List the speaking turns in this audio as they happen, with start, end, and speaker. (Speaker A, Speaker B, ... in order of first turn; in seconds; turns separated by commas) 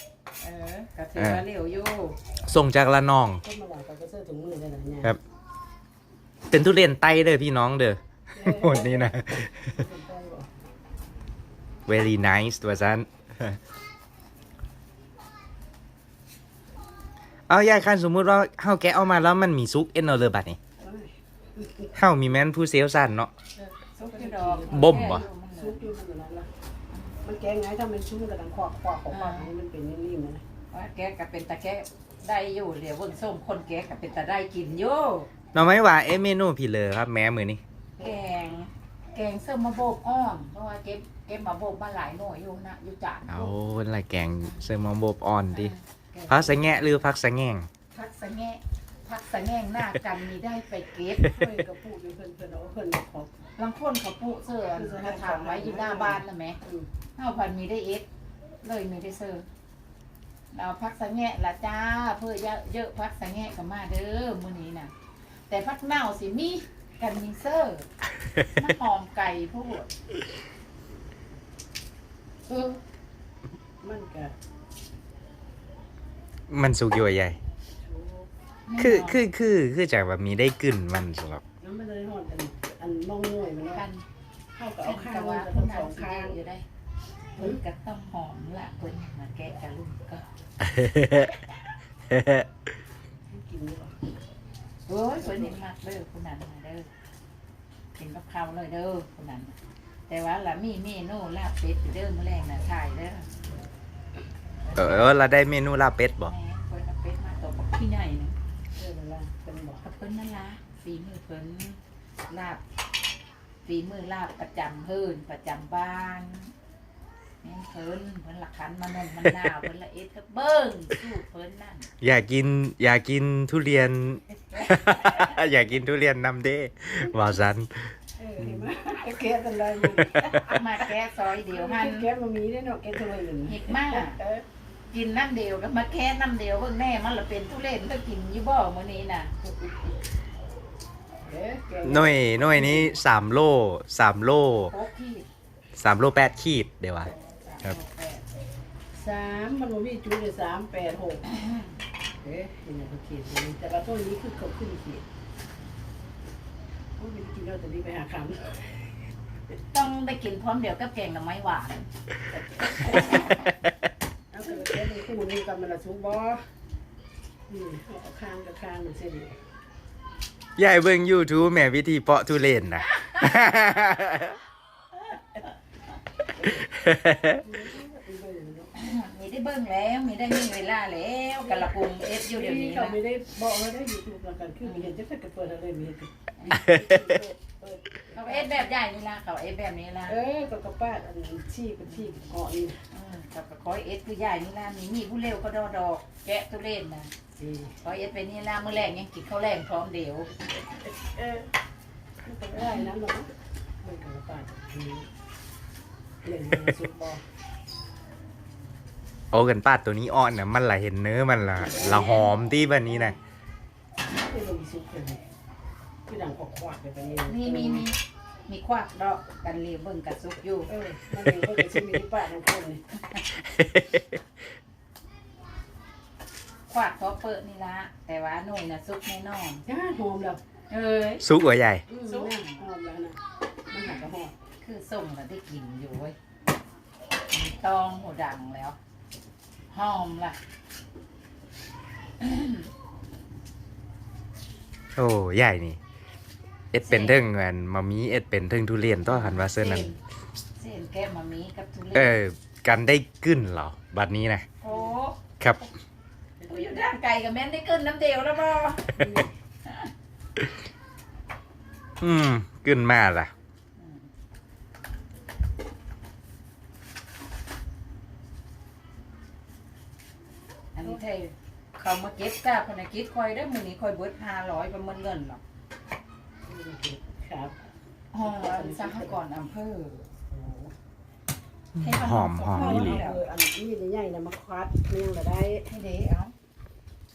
Speaker A: 0.4-2.2, Speaker B: 1.2-1.4, Speaker B: 2.5-3.4, Speaker C: 3.4-5.1, Speaker B: 6.5-9.8, Speaker C: 8.3-10.5, Speaker B: 11.9-13.6, Speaker B: 17.5-20.6, Speaker C: 20.8-21.9, Speaker B: 22.0-23.3, Speaker A: 23.6-25.9, Speaker C: 24.0-25.0, Speaker B: 24.7-25.3, Speaker C: 25.5-26.5, Speaker C: 27.2-30.4, Speaker A: 29.1-29.5, Speaker A: 30.7-35.3, Speaker B: 35.5-37.6, Speaker A: 38.0-43.5, Speaker B: 43.3-45.7, Speaker A: 45.5-46.7, Speaker B: 46.3-47.7, Speaker A: 47.9-51.3, Speaker C: 51.2-53.3, Speaker A: 53.6-56.6, Speaker C: 54.7-56.9, Speaker A: 57.2-58.1, Speaker A: 58.6-59.5, Speaker A: 60.5-64.9, Speaker A: 65.5-67.9, Speaker A: 68.5-69.9, Speaker C: 72.5-72.8, Speaker C: 73.8-74.3, Speaker B: 76.5-77.4, Speaker C: 77.8-78.3, Speaker A: 78.7-79.2, Speaker B: 78.8-81.4, Speaker C: 81.6-83.9, Speaker A: 83.7-84.0, Speaker C: 84.5-86.4, Speaker A: 84.8-86.7, Speaker A: 87.4-90.2, Speaker B: 90.6-91.3, Speaker B: 92.1-92.5, Speaker C: 93.3-94.0, Speaker A: 94.9-96.9, Speaker A: 98.0-99.5, Speaker A: 100.1-103.3, Speaker A: 104.6-105.1, Speaker B: 104.8-106.3, Speaker A: 106.2-108.4, Speaker C: 108.8-109.8, Speaker A: 109.8-112.6, Speaker A: 113.7-116.5, Speaker A: 117.4-121.9, Speaker B: 122.0-128.7, Speaker A: 124.5-125.3, Speaker C: 128.2-130.3, Speaker B: 129.9-130.4, Speaker A: 130.2-132.1, Speaker C: 131.4-134.4, Speaker A: 133.4-134.2, Speaker A: 134.9-139.7, Speaker C: 141.2-142.9, Speaker B: 141.8-144.7, Speaker A: 144.7-145.3, Speaker B: 145.8-147.1, Speaker A: 147.1-148.2, Speaker C: 148.9-151.2, Speaker A: 151.3-151.7, Speaker C: 152.2-155.0, Speaker C: 157.0-158.7, Speaker A: 159.7-161.9, Speaker C: 162.3-163.3, Speaker A: 162.8-163.4, Speaker C: 164.3-166.4, Speaker C: 167.5-169.4, Speaker B: 170.6-174.4, Speaker A: 173.0-173.2, Speaker C: 176.4-176.7, Speaker B: 176.7-177.4, Speaker C: 177.4-178.7, Speaker A: 178.8-183.0, Speaker C: 181.4-181.7, Speaker C: 182.2-188.7, Speaker A: 184.6-184.9, Speaker A: 186.4-186.7, Speaker A: 188.1-190.2, Speaker C: 190.1-192.8, Speaker A: 191.9-192.2, Speaker A: 192.9-197.1, Speaker C: 197.4-197.7, Speaker A: 197.8-200.3, Speaker C: 201.0-201.5, Speaker C: 202.2-203.3, Speaker A: 202.6-202.8, Speaker C: 203.8-205.1, Speaker C: 206.2-207.2, Speaker B: 209.3-213.2, Speaker C: 211.7-212.1, Speaker A: 211.8-212.3, Speaker C: 214.1-215.2, Speaker C: 216.1-217.9, Speaker A: 217.3-220.7, Speaker C: 220.7-222.8, Speaker B: 223.4-224.2, Speaker A: 226.7-229.6, Speaker C: 229.7-230.4, Speaker A: 230.7-231.2, Speaker B: 231.2-231.8, Speaker C: 231.9-233.2, Speaker A: 232.0-232.6, Speaker C: 233.7-234.3, Speaker A: 234.6-236.2, Speaker A: 237.3-238.8, Speaker A: 239.7-240.4, Speaker A: 242.2-242.7, Speaker B: 245.0-245.8, Speaker B: 246.7-249.9, Speaker A: 246.9-247.2, Speaker A: 249.1-250.0, Speaker A: 250.6-252.1, Speaker B: 251.9-254.5, Speaker A: 254.6-255.2, Speaker C: 254.7-254.9, Speaker B: 255.4-255.7, Speaker C: 256.4-256.9, Speaker A: 256.5-259.0, Speaker C: 259.0-259.3, Speaker B: 262.0-263.3, Speaker A: 263.8-264.1, Speaker A: 270.8-275.4, Speaker C: 276.5-277.6, Speaker A: 278.1-280.1, Speaker C: 278.2-279.2, Speaker C: 280.2-280.7, Speaker B: 281.8-283.0, Speaker A: 281.8-283.2, Speaker C: 282.5-285.7, Speaker A: 285.7-286.3